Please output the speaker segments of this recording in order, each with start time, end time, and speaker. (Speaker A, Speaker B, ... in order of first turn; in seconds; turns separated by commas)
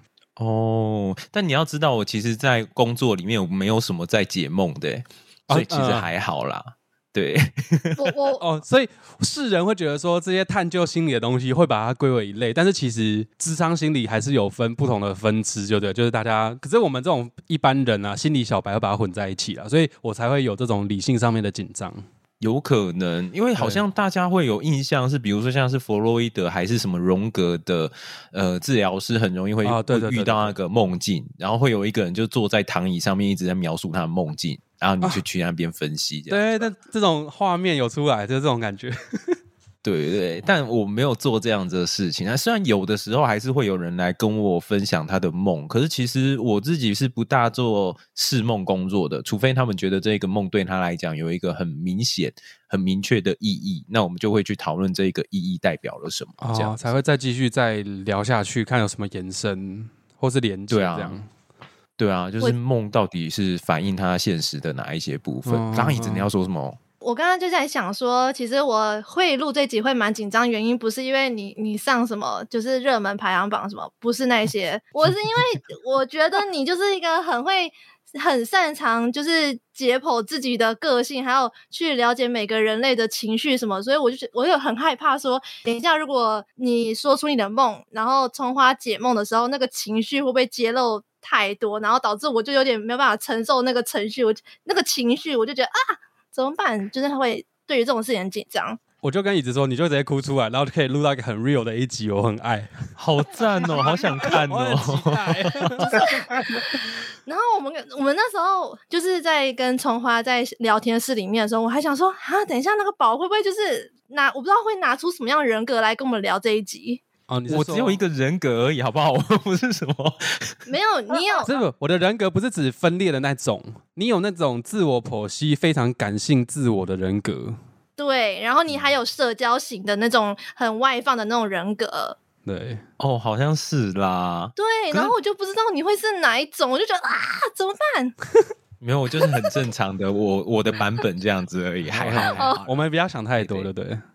Speaker A: 0.4-8.2, Speaker B: 5.5-6.1, Speaker C: 8.0-8.4, Speaker B: 8.4-22.1, Speaker A: 22.4-36.7, Speaker B: 23.6-23.8, Speaker B: 29.6-30.6, Speaker B: 36.3-39.4, Speaker A: 39.8-56.8, Speaker B: 56.4-61.3, Speaker A: 60.7-61.2, Speaker A: 62.0-66.8, Speaker B: 65.5-66.3, Speaker C: 67.0-98.8, Speaker B: 99.0-102.9, Speaker A: 103.0-106.1, Speaker B: 104.2-106.1, Speaker C: 107.3-117.0, Speaker B: 117.3-118.0, Speaker A: 117.5-120.6, Speaker C: 120.7-121.5, Speaker B: 121.4-127.6, Speaker C: 128.0-132.2, Speaker B: 132.4-132.8, Speaker A: 133.0-135.1, Speaker C: 134.6-138.1, Speaker A: 138.8-142.8, Speaker B: 141.9-144.0, Speaker C: 142.2-142.6, Speaker A: 143.4-143.7